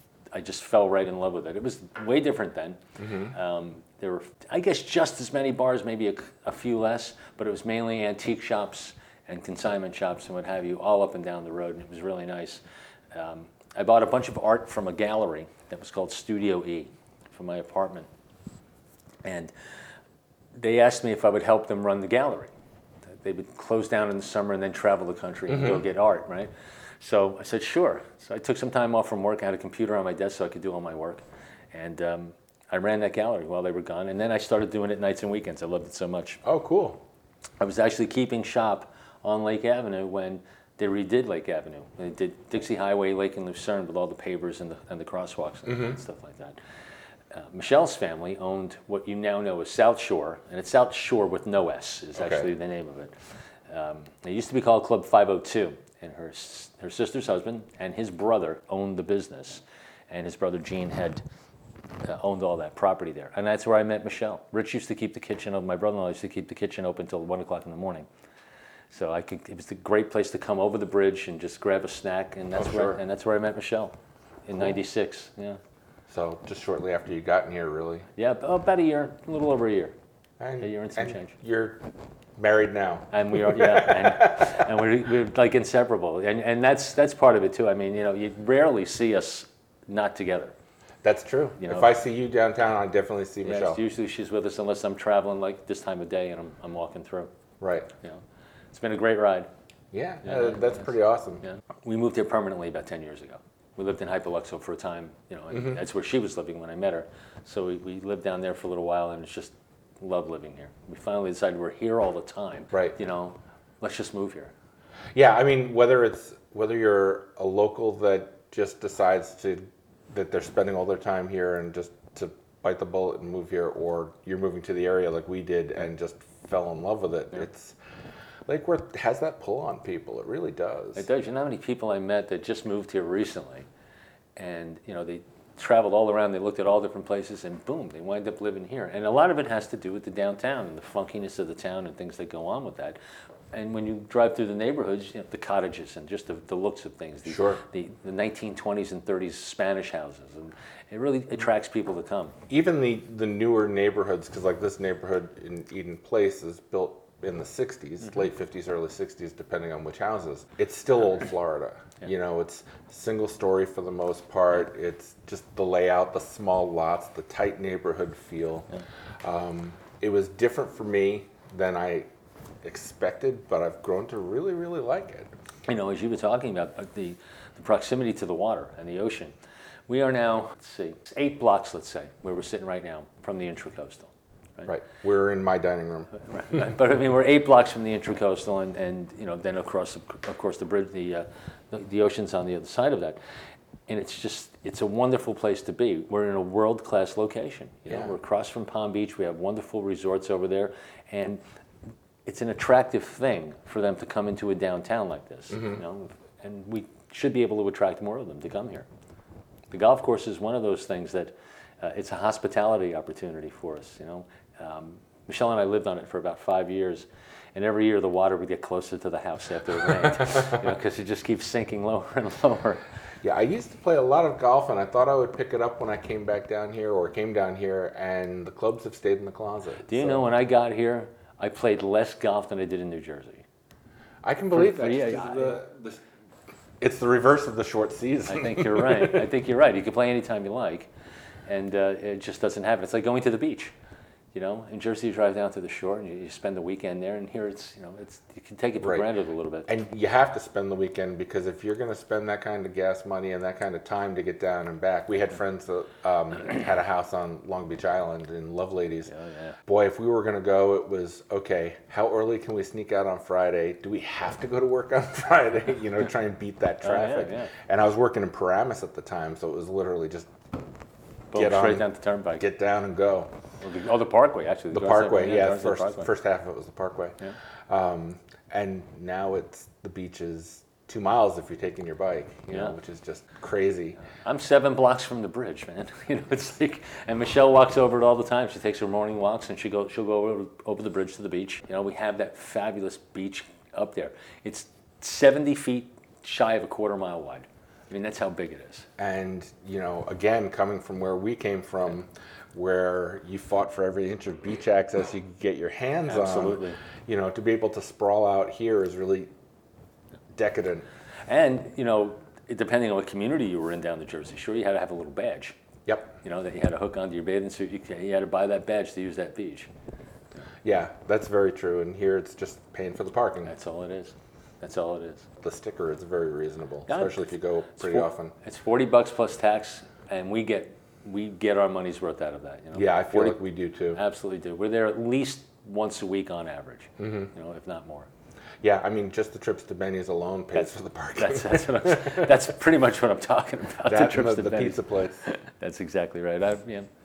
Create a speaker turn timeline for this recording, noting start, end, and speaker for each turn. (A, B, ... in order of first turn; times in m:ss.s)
0:00.3-0:18.1 A
0:03.0-0:03.3 B
0:19.2-0:19.5 A
0:20.6-0:22.5 A
0:23.1-0:36.4 A
0:25.5-0:25.8 B
0:36.4-0:37.0 B
0:37.6-0:46.6 A
0:45.7-0:46.0 B
0:47.3-0:53.1 A
0:52.2-0:52.5 B
0:53.7-1:01.2 A
1:02.0-1:08.1 A
1:08.9-1:15.6 A
1:12.6-1:13.0 B
1:16.1-1:18.1 B
1:18.2-1:19.9 A
1:20.4-1:21.8 B
1:20.6-1:21.3 A
1:22.4-1:24.6 B
1:23.1-1:30.5 A
1:31.0-1:33.8 B
1:31.6-1:31.9 A
1:33.4-1:37.3 A
1:37.6-1:37.9 B
1:38.7-1:39.5 A
1:39.9-1:41.4 B
1:40.2-1:40.8 A
1:41.4-1:54.5 A
1:45.5-1:45.8 B
1:55.1-2:07.8 B
2:08.5-2:11.1 B
2:11.0-2:13.7 A
2:14.4-2:23.0 A
2:23.5-2:32.4 A
2:27.3-2:27.6 B
2:32.5-2:48.7 B
2:49.2-2:52.1 B
2:52.6-2:55.3 B
2:55.7-2:59.3 A
2:59.9-3:04.7 A
3:04.7-3:06.1 B
3:06.2-3:13.2 A
3:13.9-3:21.4 A
3:17.9-3:18.1 B
3:22.3-3:28.9 A
3:25.5-3:25.8 B
3:29.7-3:42.8 A
3:43.2-3:50.2 B
3:49.9-3:53.4 A
3:54.2-3:56.0 B
3:54.5-3:55.6 A
3:56.8-3:59.2 B
3:58.3-4:00.9 A
4:01.5-4:03.7 A
4:04.3-4:09.7 A
4:08.8-4:09.1 B
4:09.7-4:19.1 B
4:19.1-4:19.6 A
4:19.6-4:30.3 B
4:26.8-4:27.5 A
4:31.3-4:32.4 A
4:31.3-4:33.3 B
4:33.6-4:36.1 A
4:34.7-4:44.0 B
4:44.1-4:58.9 A
4:59.0-5:09.3 B
5:06.1-5:06.8 A
5:10.3-5:10.9 B
5:11.3-5:15.6 A
5:15.9-5:16.1 B
5:16.2-5:19.7 A
5:20.6-5:23.5 B
5:23.4-5:25.3 A
5:25.4-5:28.3 B
5:26.9-5:33.4 A
5:32.7-5:34.0 B
5:33.9-5:38.1 A
5:37.0-5:37.3 B
5:38.6-5:42.3 B
5:40.5-5:46.9 A
5:43.9-5:45.2 B